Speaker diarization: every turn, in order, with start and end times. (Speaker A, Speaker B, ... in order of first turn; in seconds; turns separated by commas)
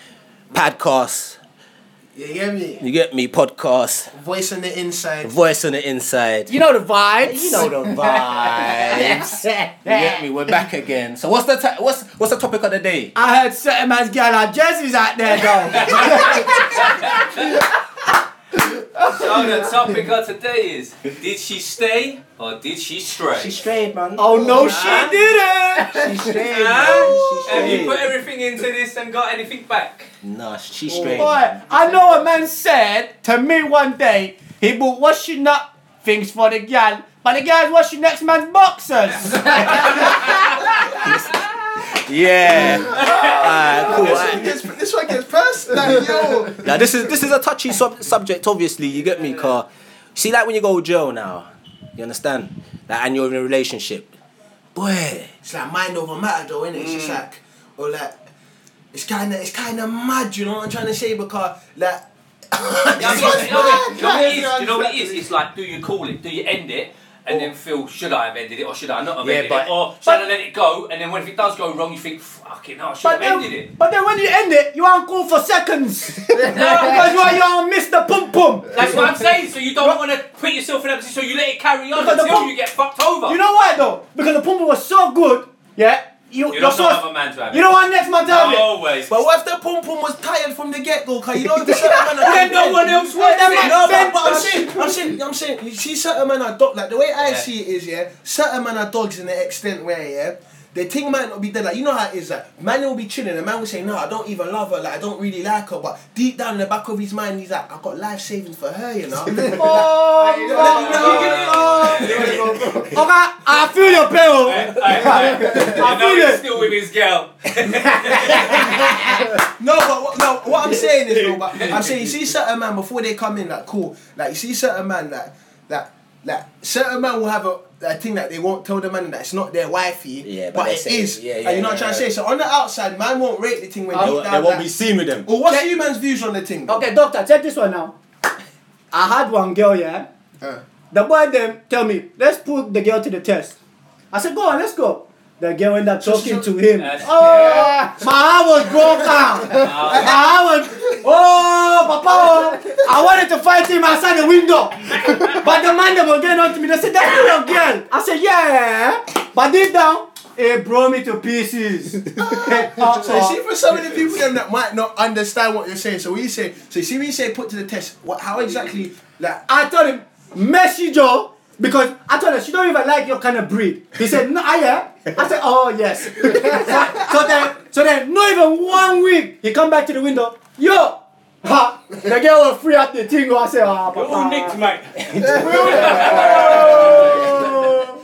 Speaker A: 0.5-1.4, Speaker B: 2.1-2.9, Speaker A: 2.8-4.1, Speaker B: 4.1-5.3, Speaker A: 5.2-6.5, Speaker C: 6.5-10.2, Speaker A: 7.2-13.2, Speaker C: 13.2-17.6, Speaker D: 15.4-17.6, Speaker D: 19.1-23.5, Speaker A: 23.3-25.1, Speaker C: 24.2-27.9, Speaker D: 24.6-25.1, Speaker A: 25.9-28.1, Speaker D: 26.5-30.1, Speaker A: 30.2-32.2, Speaker C: 31.1-40.7, Speaker D: 39.3-40.4, Speaker A: 41.9-44.5, Speaker B: 42.5-47.2, Speaker D: 42.8-44.0, Speaker A: 46.6-54.1, Speaker A: 54.8-55.3, Speaker B: 55.4-58.3, Speaker D: 56.7-57.2, Speaker B: 58.9-65.3, Speaker D: 63.0-73.7, Speaker A: 69.2-69.7, Speaker C: 73.0-79.2, Speaker D: 76.4-77.3, Speaker D: 78.7-83.4, Speaker C: 81.9-82.5, Speaker C: 83.3-88.7, Speaker D: 86.5-89.1, Speaker B: 89.1-113.0, Speaker C: 91.6-95.0, Speaker D: 97.2-97.5, Speaker C: 109.5-111.5, Speaker D: 110.5-112.6, Speaker C: 112.9-116.5, Speaker D: 113.8-118.9, Speaker B: 119.3-134.7, Speaker A: 130.2-132.1, Speaker C: 133.9-134.2, Speaker A: 134.0-135.3, Speaker B: 135.2-136.8, Speaker C: 136.7-137.9, Speaker C: 138.9-140.1, Speaker C: 140.9-143.6, Speaker C: 144.1-163.4, Speaker B: 146.0-146.5, Speaker D: 146.8-147.7, Speaker B: 147.3-147.7, Speaker B: 149.4-151.0, Speaker D: 149.5-150.2, Speaker D: 155.0-155.4, Speaker B: 162.2-169.4, Speaker C: 169.5-184.6, Speaker D: 183.9-184.9, Speaker A: 185.1-187.7, Speaker C: 185.2-187.8, Speaker D: 185.6-187.1